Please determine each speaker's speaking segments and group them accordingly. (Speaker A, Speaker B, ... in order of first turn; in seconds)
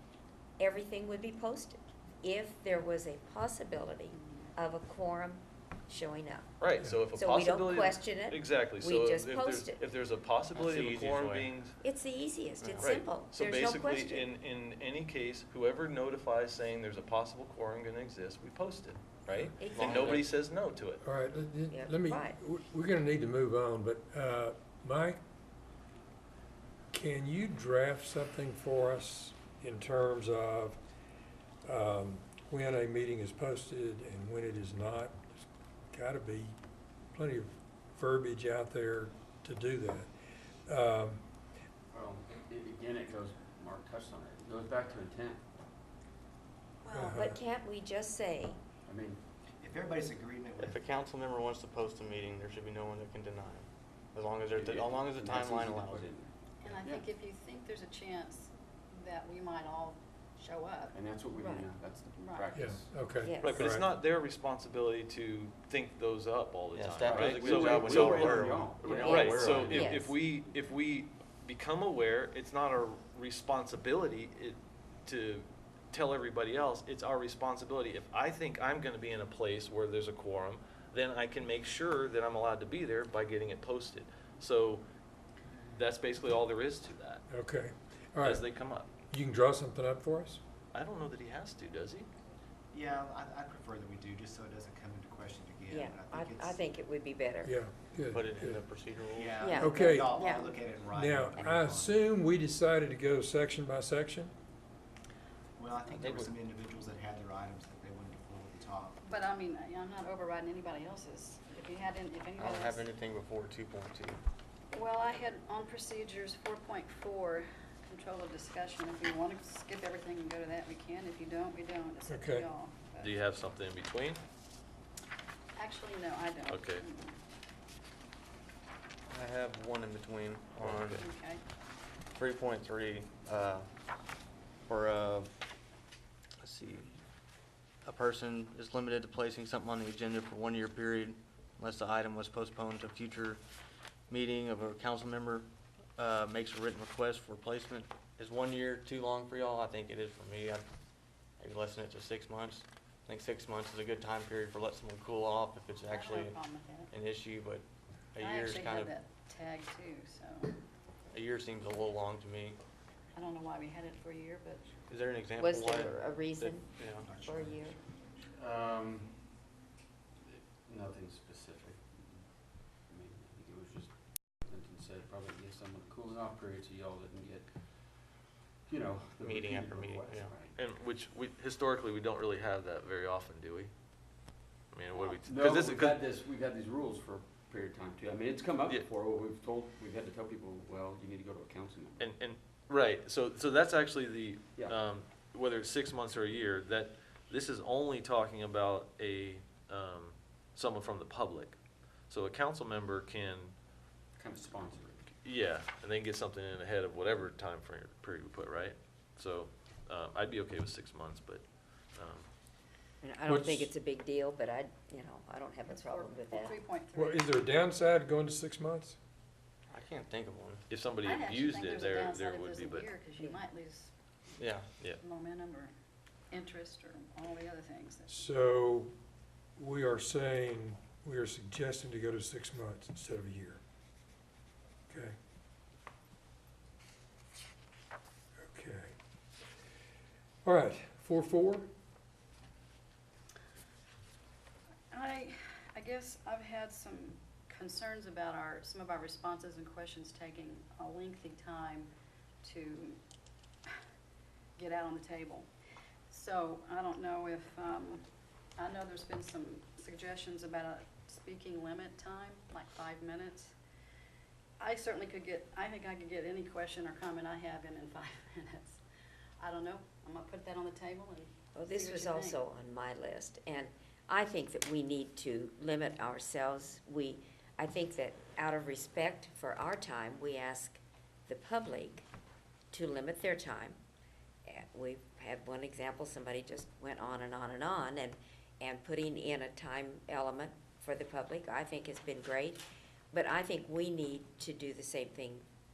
Speaker A: 0.6-6.5, 7.1-9.8, 11.8-14.3, 19.6-20.2, 21.7-22.4, 46.8-48.6, 61.4-61.7, 63.2-63.6, 69.0-70.1, 95.7-97.5, 99.4-100.5, 165.4-167.8, 213.0-216.6, 271.5-282.1, 282.7-283.8, 284.5-295.4
Speaker B: 6.6-11.8, 12.8-21.0, 63.4-84.8, 85.7-87.2, 88.2-88.9, 90.7-92.1, 123.0-124.2, 126.5-126.9, 130.6-131.0, 180.6-183.7, 184.7-186.0, 192.0-201.6, 202.1-203.5, 205.2-212.3, 220.7-223.0
Speaker C: 10.5-11.5, 12.6-13.0, 19.7-20.3, 50.6-56.1, 66.7-69.8, 98.1-99.4, 105.9-106.3, 112.4-114.2, 129.1-131.0, 132.1-133.7, 134.7-135.3, 136.4-136.9, 137.8-143.4, 144.1-150.7, 151.4-158.9, 161.1-162.6, 164.9-167.1, 179.2-180.3, 219.7-220.6, 224.4-224.7
Speaker D: 21.0-25.2, 26.9-30.8, 31.6-36.5, 37.1-40.1, 40.7-41.2, 46.9-47.4, 62.5-63.9, 87.3-88.4, 89.1-90.4, 97.4-98.6, 99.5-100.2, 100.9-104.3, 122.1-122.5, 213.2-213.7, 216.9-219.0, 228.1-228.9, 229.6-233.6, 234.9-235.2, 238.4-238.9, 240.4-241.7
Speaker E: 41.9-45.4, 48.9-49.2, 54.5-57.1, 60.9-62.9, 67.0-70.0, 168.3-169.4, 170.2-180.5, 185.0-192.1, 204.2-205.1
Speaker F: 49.6-50.8, 92.7-96.7, 99.2-102.0, 105.6-109.0, 167.0-167.8
Speaker G: 56.6-60.9, 62.2-62.5, 109.0-112.8, 114.7-123.1, 125.5-127.2, 131.0-131.4, 155.9-156.9, 158.2-160.6, 163.1-164.7, 215.7-217.3, 221.0-223.9, 225.0-225.7, 226.3-228.1, 244.9-251.9, 252.4-253.0, 254.6-255.5, 256.1-258.0, 258.6-263.5, 264.6-268.8, 269.4-272.4